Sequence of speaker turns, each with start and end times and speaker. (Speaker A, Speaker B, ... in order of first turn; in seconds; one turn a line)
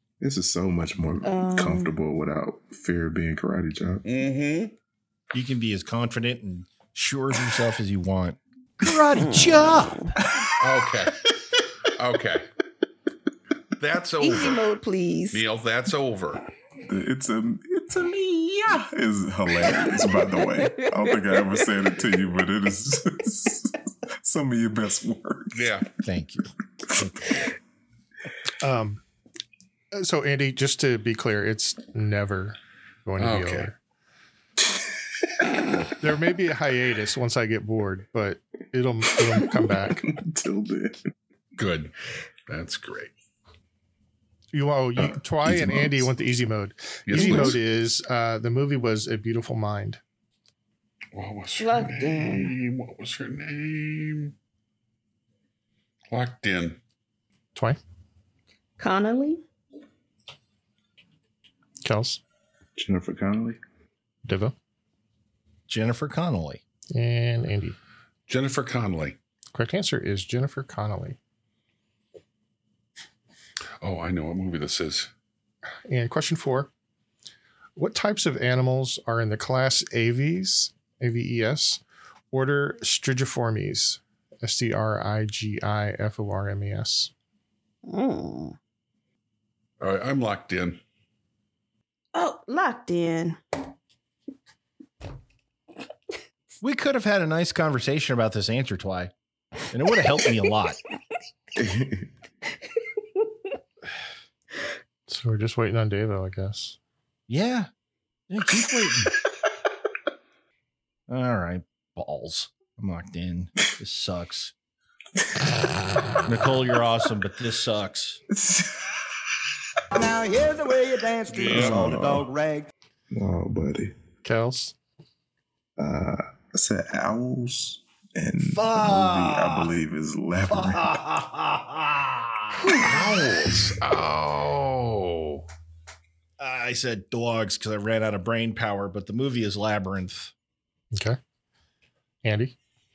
Speaker A: 0.2-4.0
Speaker B: 1.2-1.9
Speaker C: 4.0-4.7
Speaker D: 5.3-10.0
Speaker B: 9.1-10.1
Speaker A: 10.2-10.5
Speaker C: 10.6-11.2
Speaker C: 11.8-12.5
Speaker C: 13.8-14.6
Speaker B: 14.2-15.4
Speaker C: 15.3-16.4
Speaker A: 16.8-25.8
Speaker B: 20.6-21.0
Speaker C: 25.5-25.9
Speaker D: 26.0-27.4
Speaker E: 28.6-29.0
Speaker E: 29.9-33.8
Speaker C: 33.2-33.7
Speaker E: 36.0-40.1
Speaker A: 39.8-41.0
Speaker C: 41.6-41.9
Speaker C: 42.5-43.1
Speaker E: 44.5-50.0
Speaker A: 45.0-46.1
Speaker C: 47.1-47.6
Speaker C: 51.1-54.3
Speaker B: 51.6-52.5
Speaker C: 56.1-56.8
Speaker B: 58.8-59.4
Speaker E: 61.8-62.2
Speaker A: 62.8-63.6
Speaker E: 64.2-64.5
Speaker D: 65.7-66.6
Speaker E: 66.9-67.8
Speaker C: 68.3-69.2
Speaker E: 69.5-71.2
Speaker C: 73.8-75.1
Speaker E: 75.9-76.7
Speaker E: 77.8-87.1
Speaker B: 87.8-88.5
Speaker C: 89.8-90.8
Speaker B: 92.1-93.4
Speaker D: 96.6-99.1
Speaker D: 99.7-100.8
Speaker A: 101.5-102.1
Speaker E: 105.1-106.8
Speaker D: 107.3-107.7
Speaker D: 108.3-109.2
Speaker D: 111.1-114.5
Speaker D: 116.2-118.2
Speaker A: 118.3-118.9
Speaker F: 119.9-122.7
Speaker C: 121.3-122.0
Speaker A: 121.4-122.3
Speaker A: 123.1-123.9
Speaker E: 124.2-124.7
Speaker A: 125.8-131.1
Speaker D: 128.4-129.8
Speaker D: 130.5-132.8
Speaker C: 132.8-135.4
Speaker D: 136.4-140.3
Speaker E: 140.9-141.2
Speaker E: 142.2-142.5